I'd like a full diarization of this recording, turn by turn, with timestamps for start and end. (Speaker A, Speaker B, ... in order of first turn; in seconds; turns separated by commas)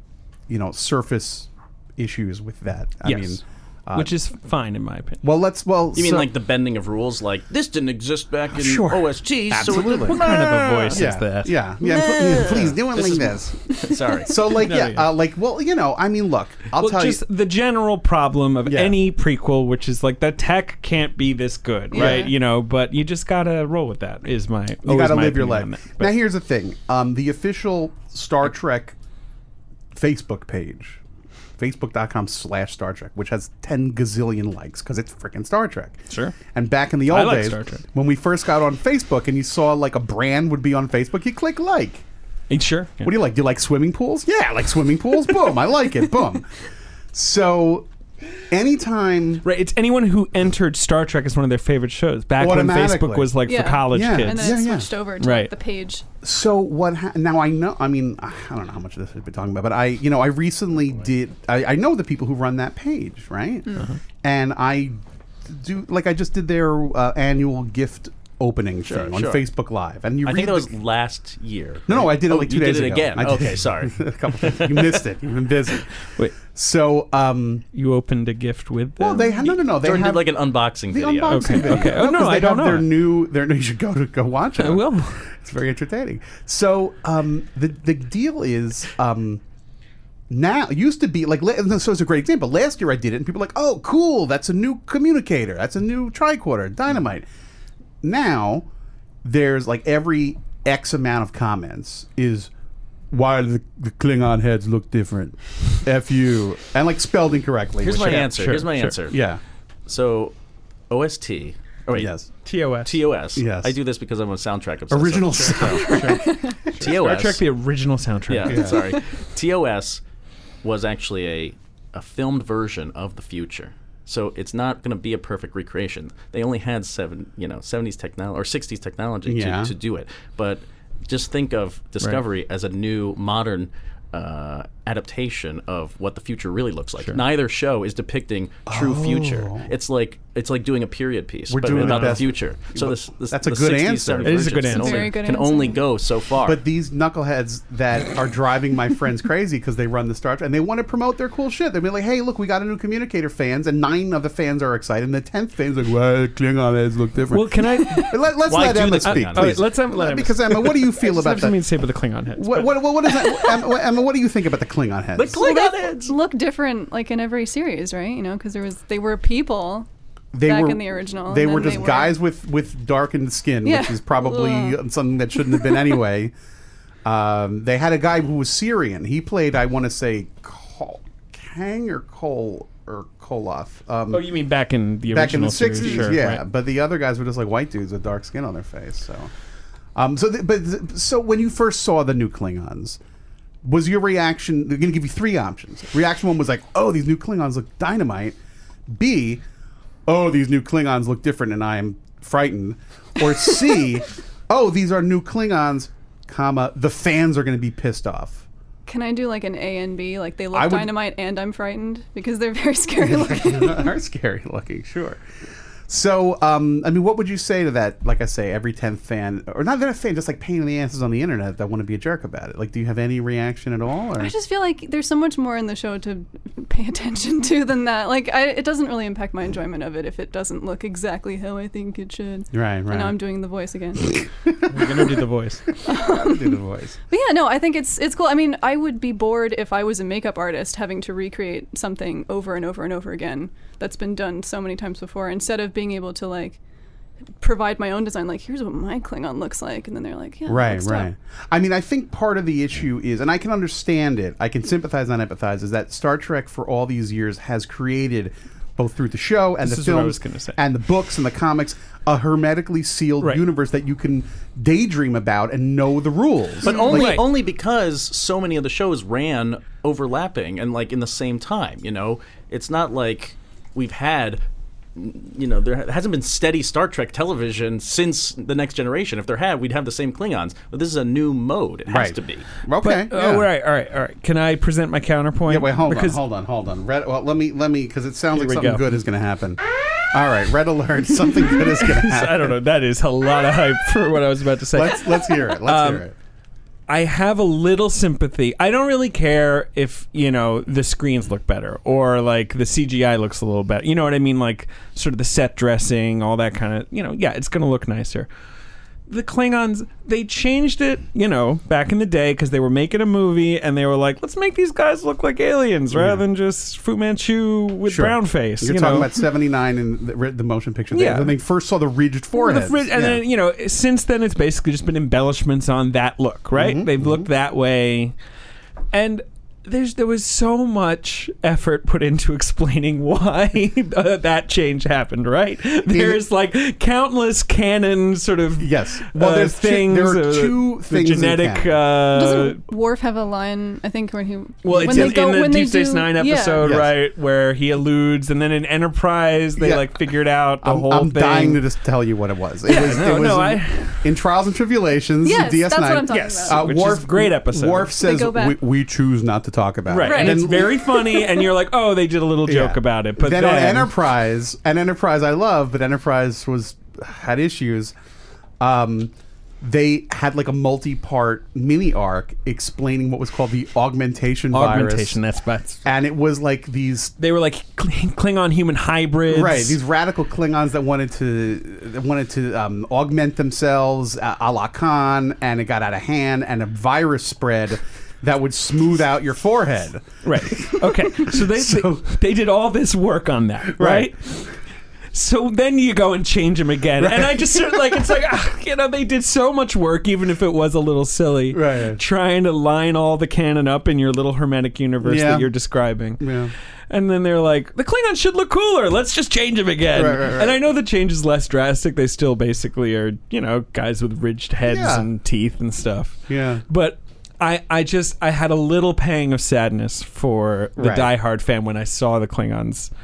Speaker A: 0.5-4.1, Speaker B: 3.0-3.4, Speaker B: 3.9-5.2, Speaker A: 5.2-6.3, Speaker C: 5.9-11.1, Speaker A: 8.5-10.3, Speaker B: 9.8-11.6, Speaker A: 10.9-17.2, Speaker C: 11.8-14.4, Speaker B: 14.6-15.1, Speaker B: 16.8-26.1, Speaker A: 18.6-19.0, Speaker A: 21.9-22.3, Speaker D: 21.9-22.3, Speaker A: 24.8-28.9, Speaker A: 29.9-31.0, Speaker A: 31.6-42.0, Speaker B: 36.1-36.4, Speaker B: 37.1-37.8, Speaker B: 42.5-43.1, Speaker A: 43.0-46.5, Speaker A: 47.1-47.9, Speaker A: 48.5-49.4, Speaker B: 49.4-54.6, Speaker A: 52.4-54.9, Speaker D: 53.4-56.0, Speaker B: 55.2-55.5, Speaker A: 56.2-70.7, Speaker C: 68.8-69.4, Speaker C: 70.2-75.0, Speaker A: 71.9-75.9, Speaker A: 76.5-77.6, Speaker B: 77.7-79.3, Speaker A: 79.0-89.4, Speaker C: 79.4-81.8, Speaker B: 81.3-82.9, Speaker B: 84.6-85.2, Speaker A: 90.3-97.2, Speaker A: 98.0-98.7, Speaker A: 99.2-102.5, Speaker A: 103.1-109.4, Speaker C: 107.8-109.2, Speaker B: 108.2-108.9, Speaker C: 109.9-110.3, Speaker C: 110.9-112.1, Speaker A: 111.9-112.3, Speaker B: 112.4-112.9, Speaker C: 112.8-116.0, Speaker A: 113.3-113.7, Speaker A: 114.9-116.5, Speaker B: 115.8-118.6, Speaker D: 116.0-116.5, Speaker C: 116.8-117.4, Speaker C: 118.3-120.0, Speaker A: 118.5-118.8, Speaker C: 120.6-146.6, Speaker A: 129.2-129.7, Speaker A: 138.7-139.7, Speaker A: 141.5-144.7, Speaker B: 141.7-142.2, Speaker B: 144.2-145.1, Speaker D: 144.7-145.8, Speaker A: 146.4-161.6, Speaker B: 157.3-162.8, Speaker C: 158.5-159.6, Speaker A: 162.3-165.4, Speaker C: 165.2-166.2, Speaker D: 165.4-169.9, Speaker A: 170.3-176.3, Speaker D: 170.4-172.2, Speaker D: 173.6-174.8, Speaker A: 177.0-184.3, Speaker B: 184.1-186.4, Speaker A: 185.1-189.3, Speaker A: 189.9-193.0, Speaker A: 193.6-198.4, Speaker A: 198.9-199.4, Speaker A: 200.1-208.4, Speaker D: 208.8-213.9, Speaker A: 210.5-210.9, Speaker A: 213.0-215.2, Speaker A: 215.9-224.3, Speaker D: 224.2-234.2, Speaker A: 232.5-233.2, Speaker B: 234.7-235.6, Speaker D: 235.8-246.6, Speaker A: 235.9-237.0, Speaker D: 247.4-251.1, Speaker A: 250.5-267.2, Speaker B: 259.6-260.6, Speaker C: 266.6-274.4, Speaker B: 266.9-267.2, Speaker C: 274.9-282.4, Speaker A: 281.9-283.5, Speaker B: 282.8-286.2, Speaker A: 285.5-289.6, Speaker B: 288.3-288.8, Speaker A: 290.1-292.6, Speaker B: 291.8-296.0, Speaker A: 294.7-296.1, Speaker B: 296.9-308.3, Speaker B: 309.1-319.1, Speaker A: 315.9-316.2, Speaker A: 317.9-323.2, Speaker B: 320.9-321.4, Speaker B: 322.3-328.1, Speaker A: 326.5-327.3, Speaker B: 328.9-342.6, Speaker A: 335.9-336.2, Speaker A: 338.6-341.9, Speaker D: 342.1-346.7, Speaker B: 344.6-351.6, Speaker A: 344.7-345.2, Speaker A: 346.6-346.9, Speaker A: 349.6-350.0, Speaker A: 350.6-360.8, Speaker B: 352.6-354.0, Speaker D: 355.2-356.7, Speaker B: 356.1-357.9, Speaker D: 357.9-358.6, Speaker B: 359.9-363.9, Speaker D: 360.0-361.3, Speaker A: 362.4-367.9, Speaker A: 368.6-375.2, Speaker B: 374.5-375.8, Speaker A: 375.8-377.1, Speaker B: 377.2-379.8, Speaker A: 379.3-392.0, Speaker B: 390.2-394.5, Speaker A: 393.7-394.3, Speaker B: 395.1-406.2, Speaker A: 397.0-397.9, Speaker A: 401.5-402.0, Speaker A: 405.0-405.5, Speaker A: 406.2-406.5, Speaker B: 406.9-422.9, Speaker A: 409.9-410.6, Speaker A: 414.6-415.1, Speaker A: 416.3-416.6, Speaker A: 420.8-421.1